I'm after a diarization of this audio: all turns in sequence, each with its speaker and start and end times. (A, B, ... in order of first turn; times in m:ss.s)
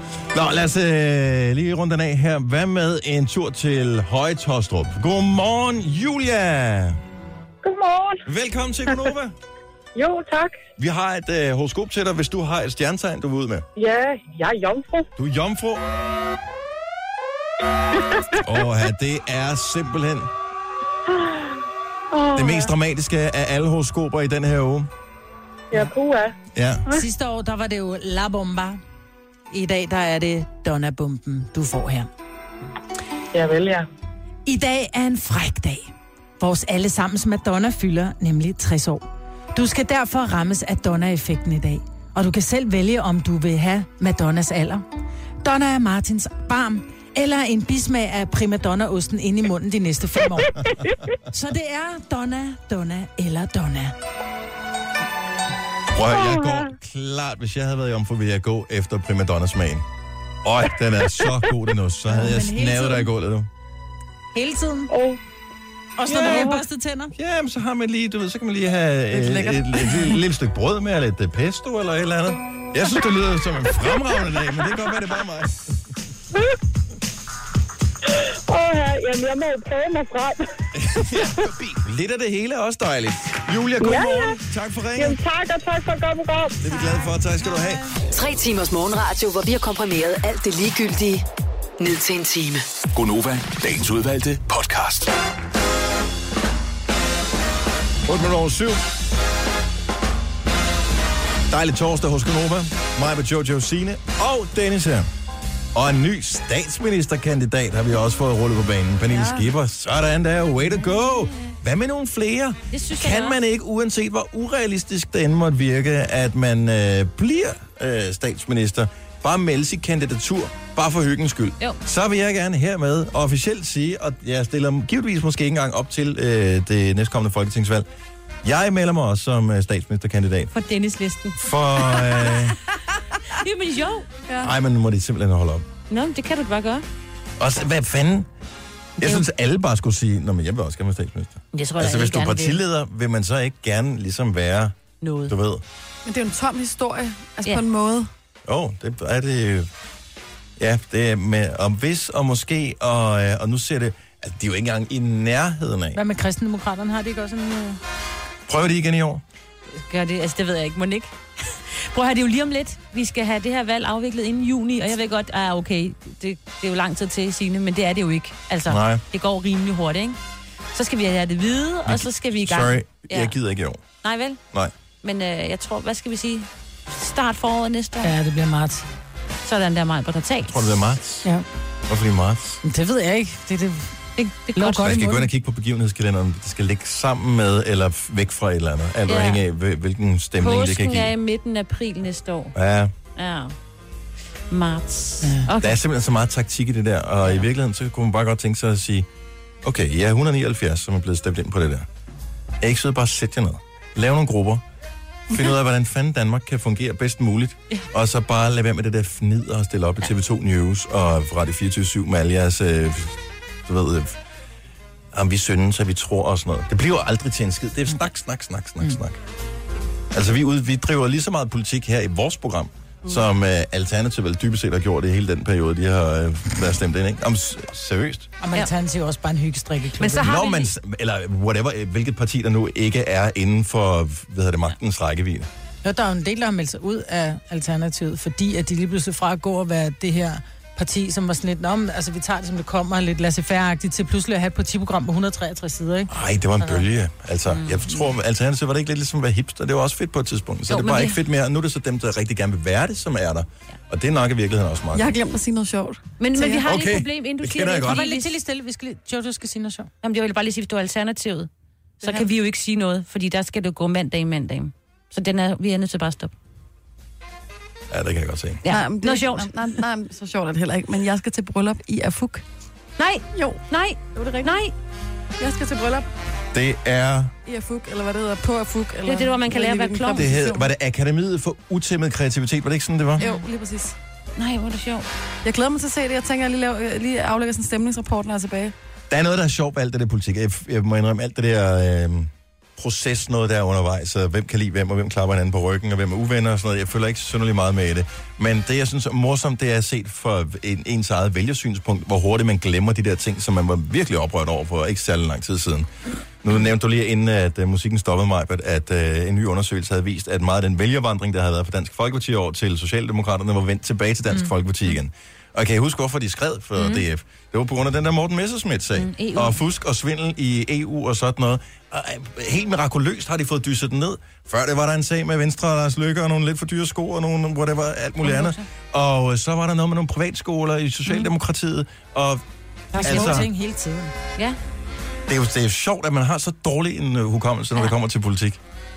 0:00.3-0:07.0 A
0:07.6-0:08.2 B
0:08.2-0:09.4 A
0:09.9-0:10.6 B
0:10.8-0:13.6 A
0:13.8-0:15.1 B
0:15.2-0:15.8 A
0:18.4-0:20.3 A
0:22.1-0:22.7 B
0:22.3-0:24.9 A
0:25.7-0:26.3 B
0:26.5-0:26.8 A
0:26.9-0:28.8 C
0:29.5-0:32.1 C
0:33.3-0:33.8 B
0:34.4-0:35.9 C
0:36.4-0:44.8 C
0:45.4-0:53.9 C
0:55.9-0:59.8 A
0:56.2-0:56.6 B
1:00.4-1:03.5 A
1:02.1-1:03.1 C
1:04.3-1:04.9 C
1:04.9-1:05.2 B
1:06.0-1:07.1 C
1:06.1-1:06.4 A
1:07.1-1:15.6 A
1:09.1-1:10.2 D
1:18.1-1:20.4 B
1:20.7-1:25.2 A
1:21.2-1:21.5 B
1:23.8-1:24.4 B
1:25.0-1:26.6 B
1:26.6-1:27.8 A
1:28.1-1:31.2 E
1:31.8-1:32.6 E
1:32.9-1:35.1 F
1:38.1-1:38.8 A
1:41.5-1:45.1 A
1:45.7-2:07.9 A
1:49.1-1:49.4 D
1:52.7-1:53.4 G
2:08.4-2:10.5 A
2:10.5-2:12.4 G
2:11.4-2:12.6 A
2:13.3-2:14.1 G
2:14.3-2:14.5 D
2:14.4-2:15.7 A
2:15.9-2:16.8 G
2:17.4-2:18.3 A
2:19.0-2:24.7 A
2:21.5-2:22.6 G
2:25.0-2:25.3 G
2:25.3-2:25.6 A
2:26.0-2:28.1 D
2:28.4-2:29.7 A
2:30.6-2:36.0 A
2:35.9-2:37.8 C
2:38.5-2:39.2 A
2:39.7-2:41.1 G
2:41.7-2:50.2 G
2:48.7-2:49.0 A
2:50.7-2:53.4 G
2:51.9-2:53.8 A
2:54.0-2:54.4 G
2:55.0-2:58.1 G
2:58.0-2:58.9 C
2:59.4-3:00.7 G
3:00.4-3:01.3 A
3:01.9-3:02.6 A
3:02.6-3:05.3 C
3:04.2-3:05.0 G
3:04.8-3:11.1 A
3:09.1-3:09.4 G
3:10.4-3:12.5 G
3:12.5-3:12.9 A
3:13.2-3:13.5 G
3:14.5-3:15.8 G
3:15.6-3:19.1 A
3:19.6-3:21.8 A
3:22.6-3:24.6 A
3:25.3-3:34.2 A
3:35.1-3:39.2 A
3:40.1-3:48.3 A
3:48.4-3:50.3 C
3:50.0-3:50.7 G
3:50.2-3:55.5 A
3:55.8-4:06.8 C
4:06.1-4:15.2 A
4:07.5-4:08.0 G
4:10.7-4:11.2 G
4:14.9-4:16.6 D
4:16.2-4:18.3 G
4:16.6-4:18.0 A
4:17.8-4:19.9 C
4:20.0-4:21.5 G
4:22.0-4:26.3 G
4:22.0-4:22.3 D
4:27.9-4:28.6 A
4:28.6-4:29.5 G
4:28.7-4:32.4 D
4:33.0-4:34.7 G
4:33.3-4:33.6 D
4:34.2-4:34.6 D
4:35.4-4:36.1 D
4:36.5-4:37.3 A
4:37.4-4:40.7 D
4:39.0-4:40.3 G
4:40.1-4:43.2 A
4:43.2-4:43.5 G
4:43.2-4:44.0 D
4:44.4-4:45.1 G
4:45.4-4:48.7 D
4:49.1-5:05.9 A
5:06.4-5:32.4 A
5:16.8-5:17.0 G
5:18.9-5:19.6 G
5:28.2-5:28.6 G
5:32.9-5:34.1 C
5:33.0-5:33.5 A
5:33.0-5:33.5 G
5:35.3-5:38.6 A